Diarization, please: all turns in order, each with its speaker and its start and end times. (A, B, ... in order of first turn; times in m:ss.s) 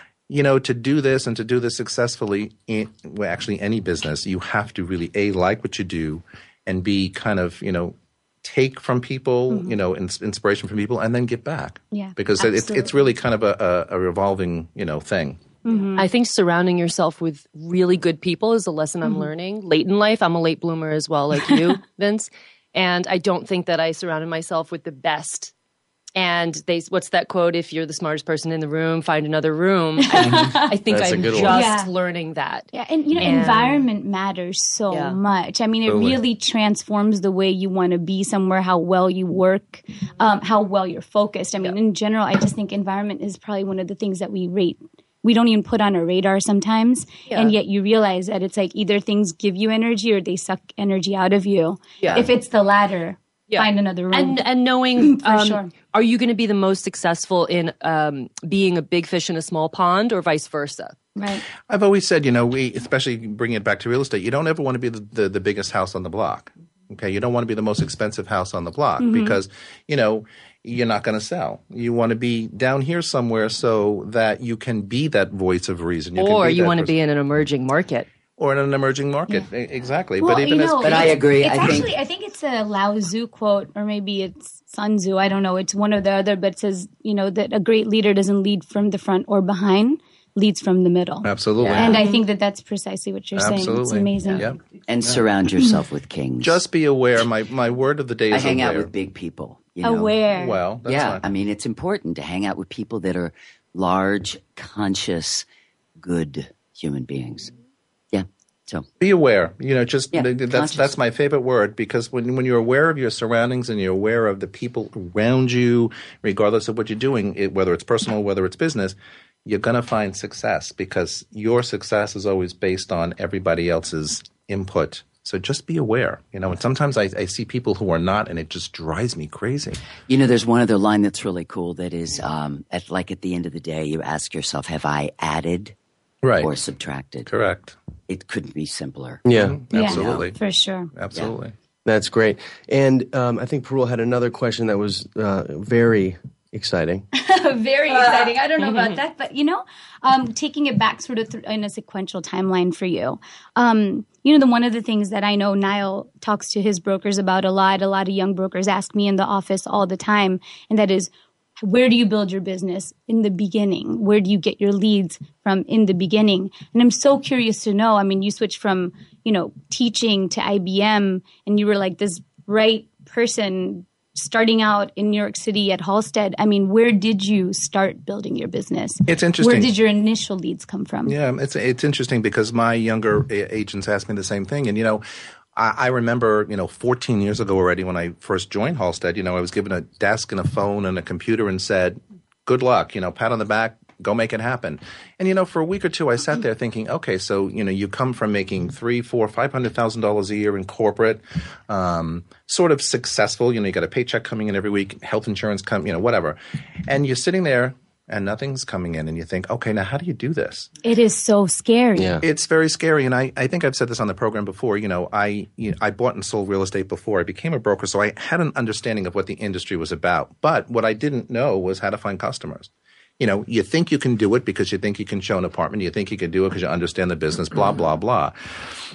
0:00.3-0:15.4 A
0:09.5-0:09.8 B
0:11.9-0:12.9 B
0:15.6-0:16.1 B
0:16.0-0:25.5 C
0:26.2-0:33.8 C
0:30.1-0:30.7 B
0:30.1-0:30.5 A
0:30.9-0:31.6 D
0:31.5-0:31.9 B
0:32.7-0:54.4 B
0:34.9-0:35.2 C
0:35.9-0:36.2 A
0:47.3-0:47.5 C
0:52.0-0:52.3 C
0:53.5-1:01.0 C
0:55.0-0:55.7 B
1:01.2-1:01.4 B
1:01.7-1:16.9 A
1:09.0-1:09.4 B
1:16.2-1:18.1 C
1:18.4-1:21.7 A
1:20.2-1:34.4 B
1:20.8-1:21.9 E
1:31.2-1:32.0 A
1:31.6-1:32.0 E
1:33.4-1:35.2 A
1:34.9-1:36.6 E
1:36.4-1:38.9 A
1:38.3-1:40.2 E
1:39.8-1:40.6 B
1:40.3-1:41.2 A
1:40.8-1:45.4 E
1:46.0-1:47.5 E
1:48.1-1:48.9 E
1:49.0-2:09.8 A
1:50.1-1:50.9 E
2:10.1-2:15.7 E
2:16.2-2:16.5 A
2:16.4-2:17.3 E
2:17.3-2:17.7 A
2:18.1-2:19.2 E
2:19.2-2:19.6 D
2:19.3-2:20.4 A
2:19.7-2:20.9 B
2:19.7-2:20.3 E
2:21.0-2:21.5 A
2:21.8-2:27.0 D
2:27.1-3:01.2 B
2:27.9-2:28.3 E
2:28.6-2:28.9 C
2:59.1-2:59.7 A
3:01.0-3:05.0 A
3:05.6-3:30.7 A
3:30.8-3:32.2 B
3:32.0-3:32.2 D
3:32.2-3:48.3 A